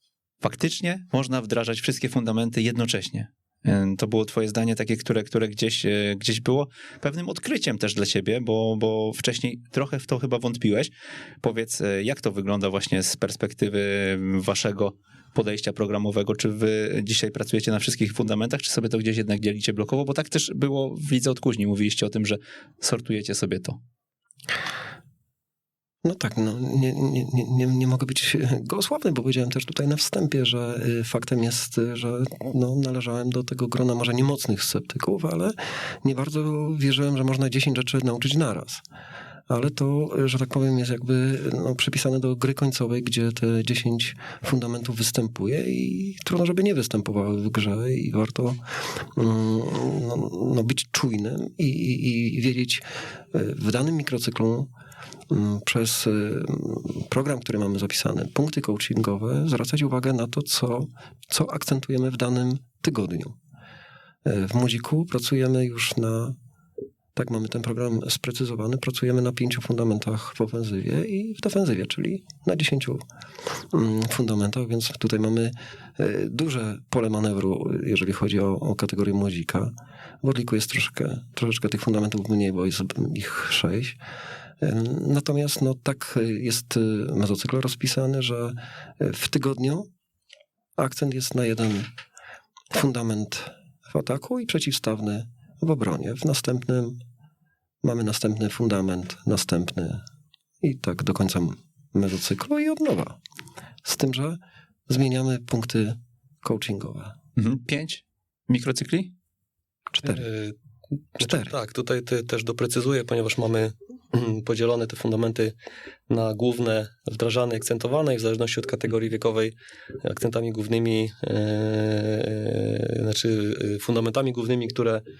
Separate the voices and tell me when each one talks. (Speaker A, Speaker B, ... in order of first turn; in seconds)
Speaker A: 0.4-23.8, 107.4-109.1
Speaker B: 26.0-38.8, 39.5-54.7, 55.3-63.4, 64.2-66.3, 67.1-73.0, 73.7-84.0, 84.6-89.9, 90.8-91.9, 92.7-97.0, 97.8-100.0, 100.6-103.2, 103.8-107.1, 109.9-110.2, 111.2-111.5
Speaker C: 110.0-110.5, 111.2-115.5, 116.1-125.0